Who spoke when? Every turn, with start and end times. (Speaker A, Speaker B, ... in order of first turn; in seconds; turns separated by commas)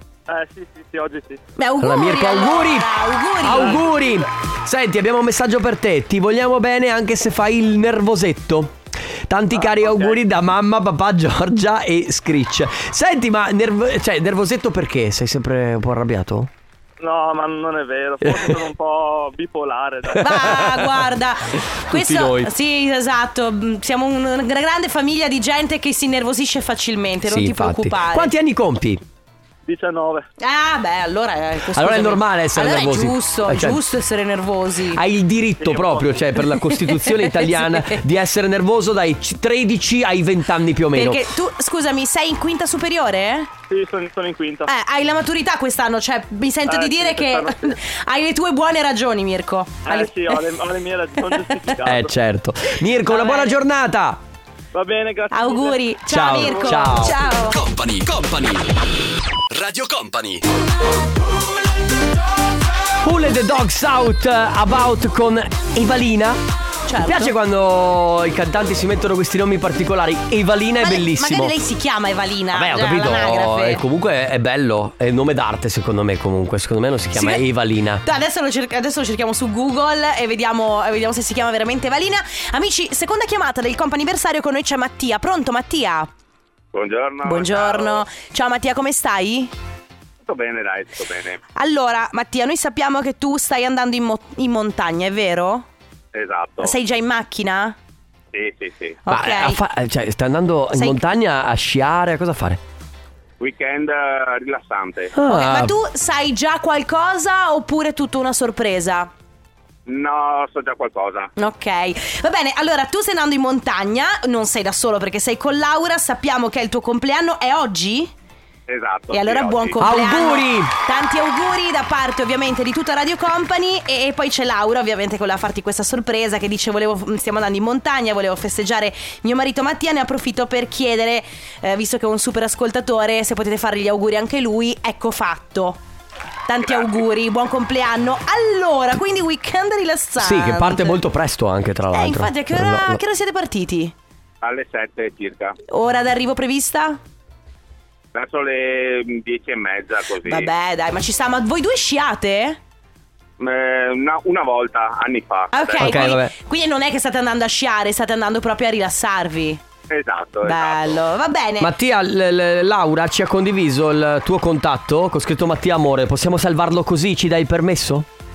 Speaker A: 0.3-1.4, Speaker B: 1.6-3.9, Speaker C: 1.8-2.9, Speaker C: 3.4-8.8, Speaker C: 9.3-16.5, Speaker A: 9.8-10.2, Speaker A: 17.0-20.1, Speaker D: 17.2-18.3, Speaker C: 18.2-18.6, Speaker C: 20.2-21.1, Speaker B: 20.2-28.3, Speaker C: 21.9-22.5, Speaker C: 27.3-29.0, Speaker A: 29.7-30.2, Speaker B: 30.4-35.0, Speaker C: 31.7-33.8, Speaker C: 35.0-41.2, Speaker A: 35.6-36.1, Speaker B: 41.0-43.5, Speaker A: 43.7-44.7, Speaker B: 44.6-50.4, Speaker D: 46.7-47.5, Speaker A: 46.9-47.5, Speaker A: 49.9-52.1, Speaker B: 51.3-51.6, Speaker C: 51.8-54.2, Speaker B: 53.1-53.5, Speaker A: 54.8-55.8, Speaker D: 55.0-55.6, Speaker B: 55.3-57.6, Speaker C: 56.1-57.2, Speaker E: 57.6-58.6, Speaker E: 59.5-60.4, Speaker C: 63.0-66.4, Speaker B: 66.9-67.3, Speaker C: 67.0-71.6, Speaker B: 70.8-73.8, Speaker C: 72.5-78.0, Speaker B: 77.2-77.4, Speaker B: 78.0-86.1, Speaker D: 86.7-88.0, Speaker B: 87.2-89.5, Speaker D: 90.2-91.4, Speaker B: 91.6-95.7, Speaker D: 96.1-96.7, Speaker B: 96.6-97.8, Speaker D: 98.3-99.0, Speaker B: 99.1-99.6, Speaker C: 99.1-102.6, Speaker B: 100.7-101.0, Speaker D: 103.4-105.1, Speaker C: 105.1-105.7, Speaker B: 105.3-109.1, Speaker D: 109.9-111.3, Speaker B: 111.4-118.1, Speaker D: 118.7-119.8, Speaker B: 119.1-135.8, Speaker C: 119.8-120.7, Speaker B: 136.5-141.0, Speaker D: 136.6-136.9, Speaker C: 140.2-143.0, Speaker B: 141.9-143.9, Speaker D: 144.4-145.5, Speaker B: 145.7-147.0, Speaker D: 148.2-150.5, Speaker B: 150.2-152.6, Speaker D: 153.4-156.0, Speaker B: 155.5-159.6, Speaker C: 155.8-156.3, Speaker D: 159.9-160.8, Speaker B: 160.4-161.7, Speaker C: 161.6-168.1